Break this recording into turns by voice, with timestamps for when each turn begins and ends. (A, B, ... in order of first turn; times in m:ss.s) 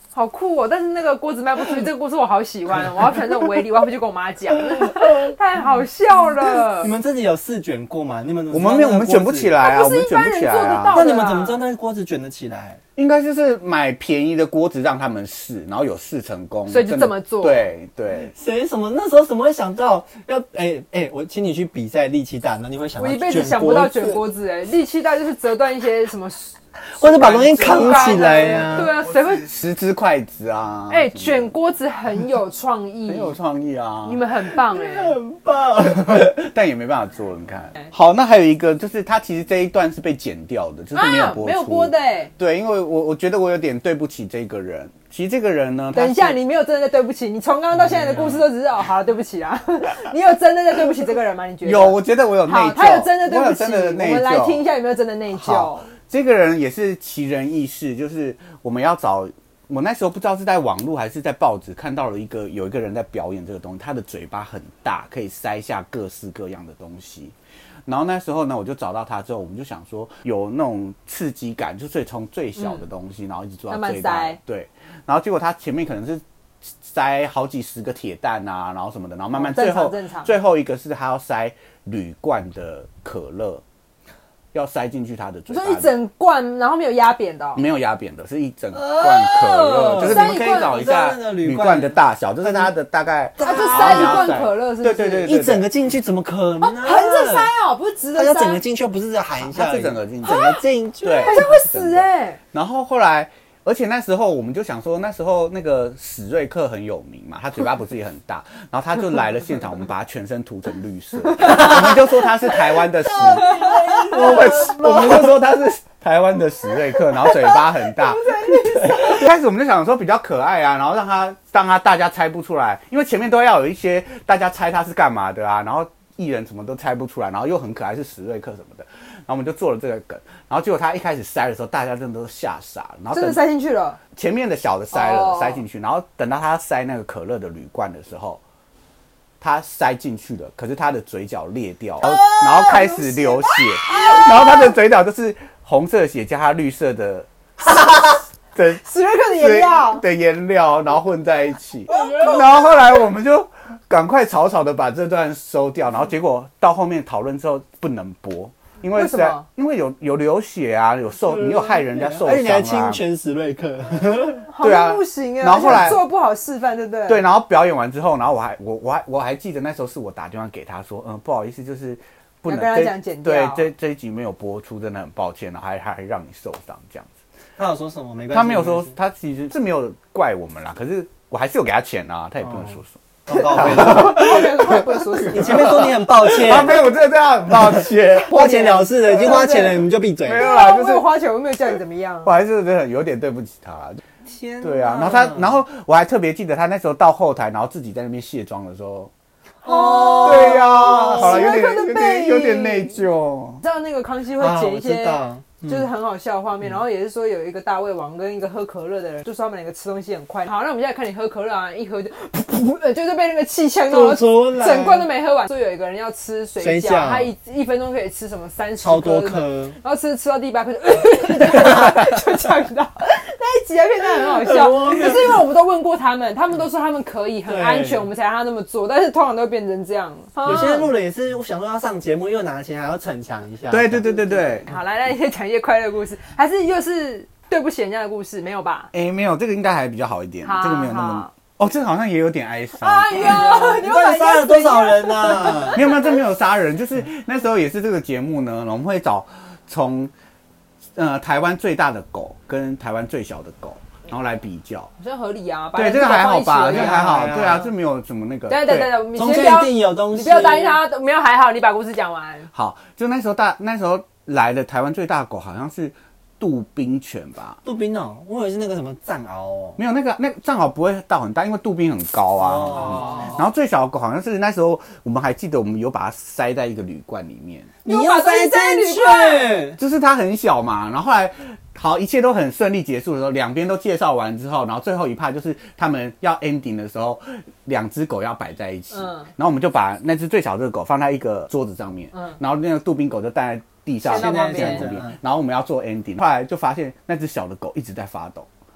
0:00.1-0:06.9 A
0:06.8-0:09.5 B
0:08.5-0:11.0 C
0:09.6-0:11.6 A
0:10.9-0:12.8 B
0:13.0-0:18.3 C
0:16.7-0:17.7 A
0:18.3-0:24.2 B
0:23.0-0:26.5 A
0:27.0-0:28.9 B
0:27.0-0:31.5 C
0:27.2-0:29.5 A
0:30.9-0:33.4 A
0:33.1-0:34.2 C
0:34.0-0:35.2 A
0:34.7-0:36.3 B
0:36.0-0:46.4 C
0:41.0-0:42.3 A
0:45.9-0:55.9 A
0:47.9-0:48.5 C
0:51.6-0:54.6 C
0:55.3-1:07.3 C
1:07.9-1:23.6 C
1:12.6-1:12.8 A
1:13.7-1:14.4 A
1:19.3-1:20.3 A
1:24.5-1:25.9 C
1:25.5-1:27.6 A
1:27.6-1:35.7 C
1:28.8-1:30.8 A
1:29.0-1:32.7 B
1:33.4-1:34.3 B
1:33.4-1:35.3 A
1:35.3-1:37.5 B
1:36.6-1:38.6 A
1:38.1-1:41.6 B
1:39.4-2:13.4 C
1:40.2-1:40.6 A
1:41.2-1:42.4 A
1:51.5-1:51.7 A
1:53.0-1:55.4 B
1:53.4-1:54.2 A
1:57.3-1:59.3 A
2:13.1-2:14.0 A
2:14.2-2:18.4 C
2:14.9-2:15.6 A
2:19.4-2:28.0 C
2:22.0-2:24.8 A
2:28.6-2:43.0 C
2:28.8-2:30.0 A
2:31.9-2:32.8 A
2:38.9-2:39.4 A
2:41.3-2:44.5 B
2:44.5-2:47.2 A
2:44.6-2:46.0 C
2:47.1-2:57.1 C
2:52.4-2:53.7 A
2:57.6-2:59.0 B
2:58.3-3:08.5 C
3:02.4-3:04.2 B
3:03.3-3:05.9 A
3:05.3-3:06.9 B
3:07.6-3:10.5 B
3:08.3-3:12.3 A
3:09.2-3:09.5 C
3:10.2-3:11.0 C
3:12.2-3:14.0 C
3:14.3-3:15.6 B
3:14.6-3:19.1 C
3:19.6-3:21.5 B
3:19.6-3:23.0 A
3:20.1-3:23.6 C
3:23.6-3:50.9 A
3:24.4-3:25.8 B
3:33.9-3:35.1 B
3:36.6-3:37.3 B
3:38.8-3:39.8 B
3:44.4-3:45.4 B
3:47.5-3:48.1 B
3:50.4-3:54.1 B
3:53.7-3:54.7 C
3:54.0-3:58.9 A
3:58.9-4:03.6 C
4:00.4-4:01.3 A
4:02.8-4:06.2 A
4:03.1-4:05.8 B
4:05.6-4:10.1 C
4:11.0-4:14.9 C
4:15.0-4:17.2 A
4:15.8-4:18.9 C
4:16.7-4:17.7 B
4:18.5-4:22.5 A
4:19.1-4:20.8 B
4:22.5-4:27.6 C
4:27.6-4:29.8 B
4:29.8-4:37.7 C
4:32.4-4:33.3 B
4:37.8-4:39.6 A
4:37.8-4:39.8 B
4:39.8-4:58.5 C
4:48.9-4:49.3 A
4:54.0-4:54.9 A
4:54.0-4:55.2 B